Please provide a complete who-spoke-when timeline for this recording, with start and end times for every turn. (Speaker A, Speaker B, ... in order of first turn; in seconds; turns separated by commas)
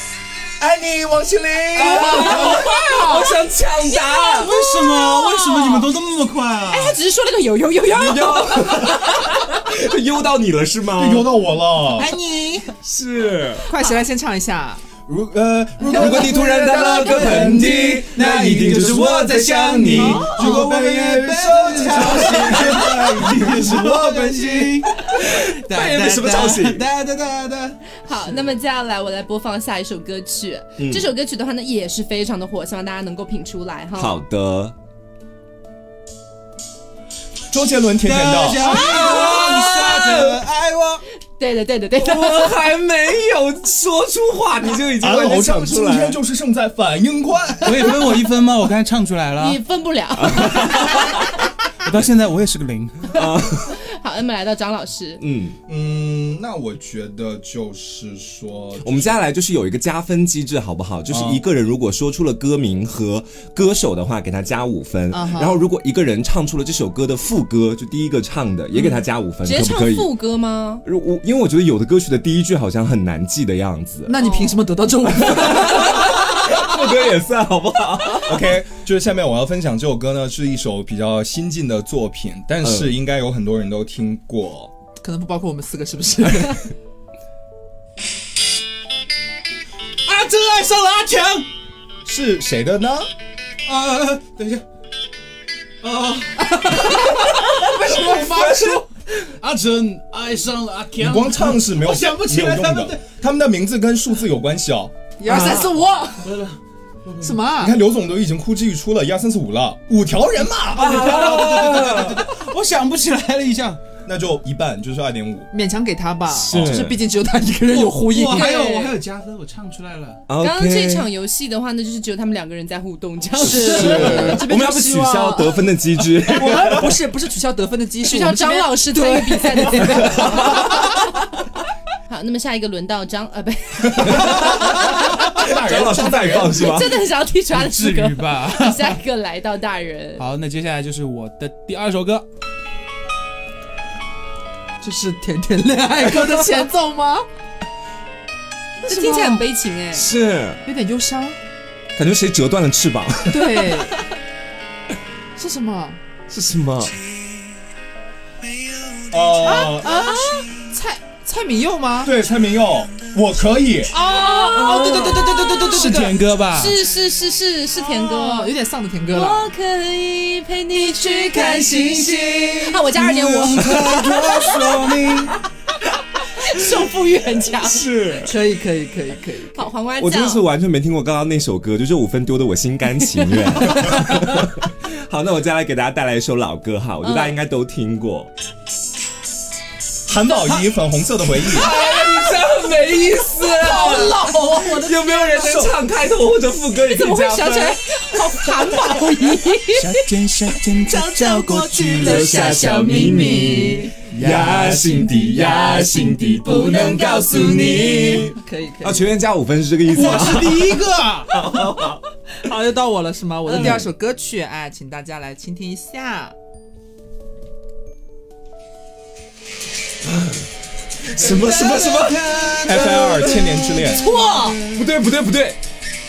Speaker A: 0.6-2.4, Speaker B: 1.8-3.3, Speaker C: 1.8-4.5, Speaker D: 1.8-5.9, Speaker E: 4.3-7.0, Speaker D: 6.7-9.4, Speaker C: 7.9-11.3, Speaker A: 10.9-12.1, Speaker B: 12.0-12.7, Speaker C: 12.8-13.7, Speaker B: 13.7-14.8, Speaker A: 15.1-19.2, Speaker C: 15.9-20.3, Speaker D: 15.9-16.3, Speaker E: 17.3-28.4, Speaker B: 19.9-20.3, Speaker A: 20.0-24.9, Speaker C: 22.4-22.8, Speaker C: 25.0-26.9, Speaker D: 28.0-34.2, Speaker C: 30.8-31.1, Speaker C: 34.0-34.8, Speaker A: 37.5-38.8, Speaker E: 38.0-41.0, Speaker C: 38.7-40.4, Speaker D: 38.7-39.7, Speaker D: 41.4-42.6, Speaker C: 42.0-46.2, Speaker A: 45.0-48.2, Speaker E: 47.6-49.6, Speaker D: 49.4-51.2, Speaker C: 50.2-51.2, Speaker E: 51.8-53.2, Speaker C: 53.1-53.8, Speaker D: 53.7-55.2, Speaker C: 55.2-55.6, Speaker A: 55.7-59.1, Speaker C: 58.8-70.1, Speaker A: 61.1-61.4, Speaker B: 65.1-65.6, Speaker B: 68.8-69.0, Speaker D: 69.4-70.8, Speaker C: 70.8-74.2, Speaker B: 74.1-76.2, Speaker D: 74.2-74.5, Speaker C: 75.1-78.5, Speaker A: 78.2-84.7, Speaker C: 82.6-83.0, Speaker B: 85.0-86.7, Speaker E: 90.1-91.5, Speaker A: 92.0-93.1, Speaker E: 93.7-94.6, Speaker E: 95.8-103.0, Speaker C: 96.7-98.8, Speaker A: 101.0-104.9, Speaker B: 105.2-106.3, Speaker C: 105.3-105.7, Speaker E: 106.2-107.4, Speaker B: 107.2-107.8, Speaker A: 107.6-111.6, Speaker C: 110.8-112.3, Speaker E: 110.8-113.8, Speaker A: 114.0-115.5, Speaker B: 115.5-118.9, Speaker C: 116.4-117.0, Speaker A: 116.5-116.8, Speaker E: 117.7-120.2, Speaker D: 118.3-118.9, Speaker C: 120.3-121.1, Speaker D: 120.4-124.4, Speaker B: 123.4-125.7, Speaker C: 123.4-126.9, Speaker B: 126.3-130.7, Speaker D: 128.1-130.9, Speaker C: 130.1-130.5, Speaker D: 132.1-140.2, Speaker A: 134.0-136.7, Speaker C: 134.0-137.0, Speaker E: 137.5-139.0, Speaker E: 140.2-142.3, Speaker B: 144.8-147.2, Speaker B: 148.8-149.4, Speaker D: 148.8-150.1, Speaker C: 149.9-150.6, Speaker B: 150.7-151.4, Speaker C: 152.0-153.7, Speaker B: 153.3-154.1, Speaker B: 155.4-156.0, Speaker C: 156.3-157.0, Speaker A: 159.1-160.1, Speaker B: 159.4-162.1, Speaker A: 162.0-163.9, Speaker B: 163.9-166.2, Speaker D: 163.9-166.0, Speaker E: 165.6-166.8, Speaker D: 166.5-168.5, Speaker B: 167.7-169.5, Speaker D: 169.1-171.8, Speaker B: 171.0-172.8, Speaker E: 171.5-175.4, Speaker D: 172.6-174.7, Speaker C: 173.6-175.3, Speaker D: 176.4-177.9, Speaker C: 177.6-178.3, Speaker B: 178.2-179.7, Speaker D: 179.5-180.4, Speaker C: 180.0-188.3, Speaker D: 187.0-187.4, Speaker A: 190.1-191.7, Speaker C: 191.4-197.8, Speaker D: 193.6-195.7, Speaker D: 196.9-200.1, Speaker E: 199.7-202.7, Speaker D: 200.9-202.0, Speaker B: 201.2-204.0, Speaker C: 202.0-212.0, Speaker E: 204.0-205.3, Speaker B: 205.7-209.2, Speaker D: 206.5-207.4, Speaker E: 209.9-211.4, Speaker B: 211.5-216.3, Speaker C: 213.5-213.9, Speaker C: 220.1-220.4, Speaker C: 221.0-223.4, Speaker E: 221.2-224.8, Speaker A: 222.6-224.0, Speaker B: 224.0-224.6, Speaker C: 224.7-225.6